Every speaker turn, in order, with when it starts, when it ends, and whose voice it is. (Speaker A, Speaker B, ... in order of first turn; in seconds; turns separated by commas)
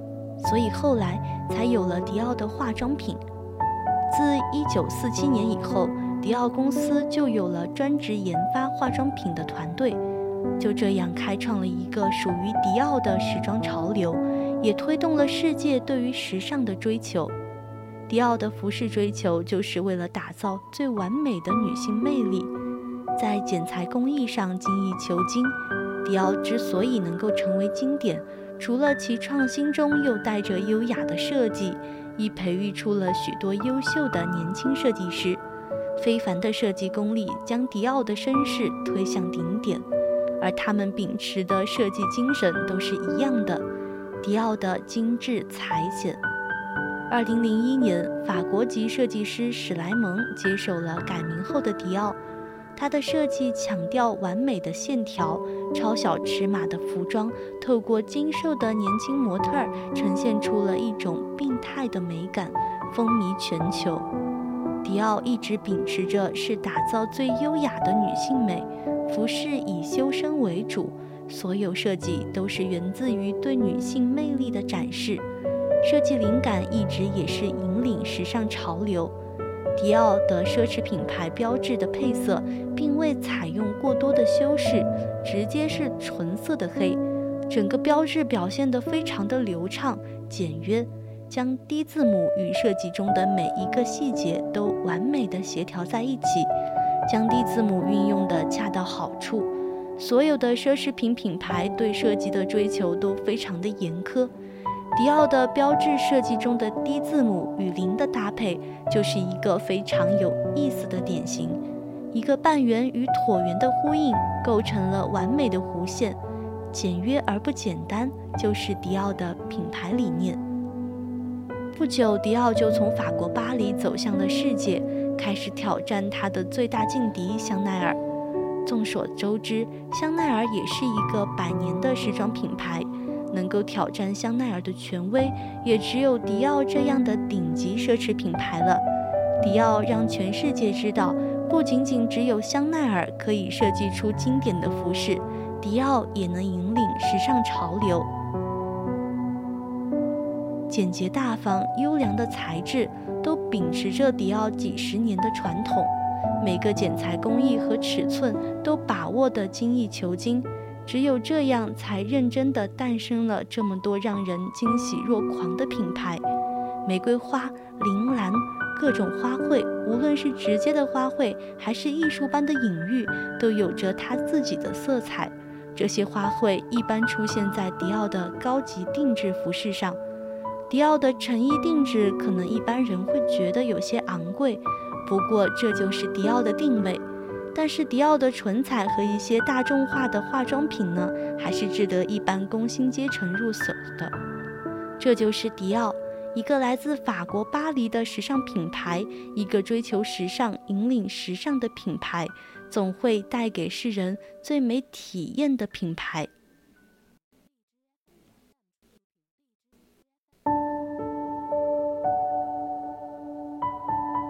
Speaker A: 0.4-3.2, Speaker A: 4.1-10.0, Speaker A: 10.6-17.3, Speaker A: 18.1-22.5, Speaker A: 23.2-35.4, Speaker A: 36.0-39.9, Speaker A: 40.4-43.6, Speaker A: 44.2-46.2, Speaker A: 47.1-52.2, Speaker A: 52.8-64.1, Speaker A: 64.8-75.2, Speaker A: 75.8-79.2, Speaker A: 79.8-96.5, Speaker A: 97.1-104.3, Speaker A: 105.0-111.6, Speaker A: 112.1-116.2, Speaker A: 116.7-120.4, Speaker A: 121.8-128.0, Speaker A: 128.7-138.8, Speaker A: 139.4-148.1, Speaker A: 150.7-166.2, Speaker A: 166.9-180.0, Speaker A: 180.7-194.1, Speaker A: 195.0-206.3